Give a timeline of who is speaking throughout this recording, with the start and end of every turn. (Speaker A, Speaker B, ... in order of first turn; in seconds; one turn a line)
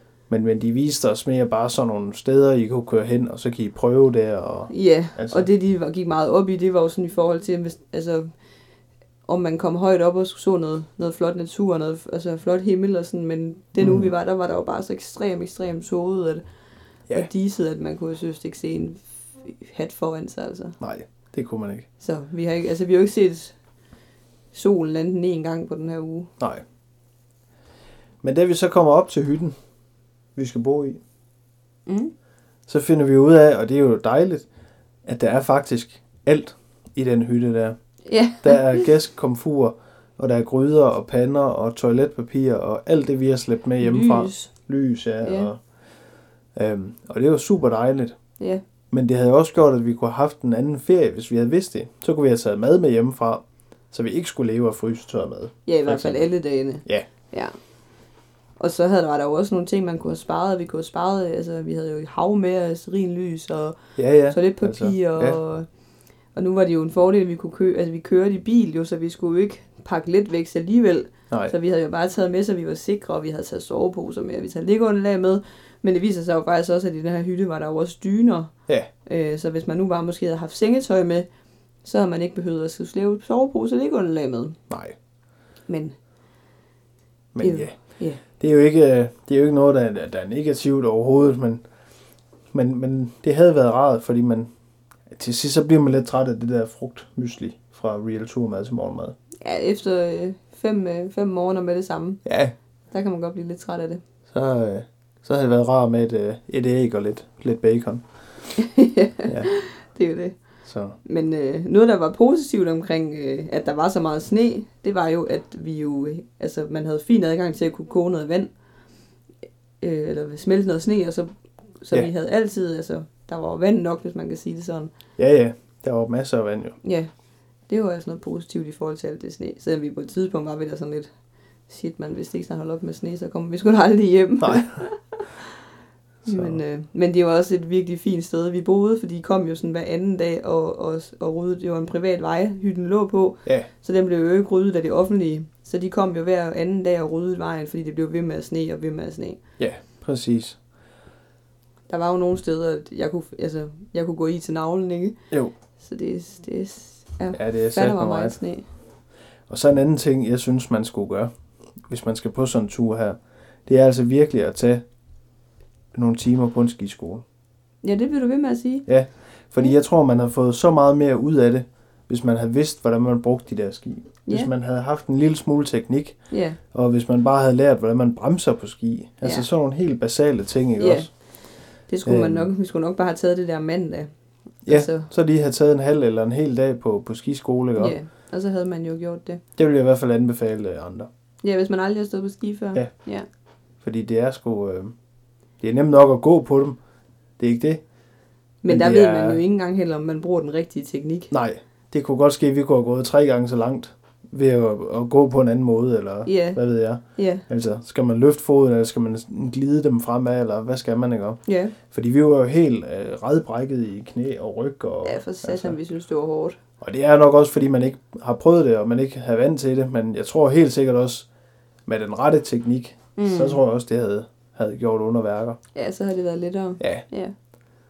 Speaker A: 0.3-5.5
Speaker B: 4.7-8.3
Speaker B: 9.3-16.4
Speaker A: 13.8-14.1
Speaker B: 17.1-20.8
Speaker A: 20.8-21.9
Speaker B: 22.0-23.6
Speaker B: 24.5-26.3
Speaker A: 28.2-29.6
Speaker A: 30.4-31.0
Speaker B: 31.9-32.1
Speaker A: 32.7-34.5
Speaker A: 35.1-37.8
Speaker B: 38.1-38.9
Speaker A: 38.4-45.6
Speaker B: 43.8-44.5
Speaker B: 45.2-45.5
Speaker A: 46.5-48.2
Speaker A: 48.9-56.3
Speaker B: 55.7-57.6
Speaker B: 58.6-63.8
Speaker A: 64.0-65.4
Speaker B: 64.3-65.7
Speaker B: 66.3-78.5
Speaker B: 79.1-81.3
Speaker B: 81.8-84.6
Speaker A: 84.7-85.0
Speaker B: 85.7-86.0
Speaker A: 87.3-87.8
Speaker B: 87.4-88.2
Speaker A: 88.4-91.6
Speaker A: 92.5-94.5
Speaker A: 95.1-99.2
Speaker B: 99.4-102.2
Speaker A: 102.2-102.5
Speaker B: 102.9-104.0
Speaker A: 104.3-108.0
Speaker B: 108.5-110.4
Speaker A: 109.3-109.5
Speaker A: 110.7-111.0
Speaker B: 111.0-118.5
Speaker B: 119.8-124.9
Speaker A: 125.2-126.8
Speaker B: 126.8-127.1
Speaker B: 127.7-131.1
Speaker B: 131.7-135.5
Speaker A: 134.4-134.8
Speaker B: 136.3-149.4
Speaker A: 136.3-136.6
Speaker A: 149.6-150.6
Speaker B: 151.9-155.2
Speaker B: 155.8-158.7
Speaker A: 157.3-158.4
Speaker A: 159.5-161.3
Speaker A: 161.9-164.8
Speaker A: 165.9-167.2
Speaker B: 167.8-168.9
Speaker A: 168.9-176.2
Speaker B: 176.3-176.6
Speaker A: 176.7-181.1
Speaker B: 179.2-179.5
Speaker B: 180.8-181.1
Speaker B: 181.9-184.1
Speaker A: 182.1-182.5
Speaker B: 184.7-185.1
Speaker A: 184.7-187.9
Speaker B: 187.8-189.4
Speaker A: 189.6-191.1
Speaker B: 191.4-193.3
Speaker A: 193.8-194.9
Speaker A: 195.6-196.8
Speaker A: 197.4-197.8
Speaker B: 198.6-201.3
Speaker A: 198.7-199.4
Speaker A: 201.3-215.8
Speaker B: 206.2-206.6
Speaker B: 207.2-207.5
Speaker B: 211.5-211.8
Speaker B: 215.0-216.6
Speaker A: 216.8-221.3
Speaker A: 221.9-225.6
Speaker B: 223.2-223.6
Speaker B: 225.8-227.3
Speaker A: 226.8-227.1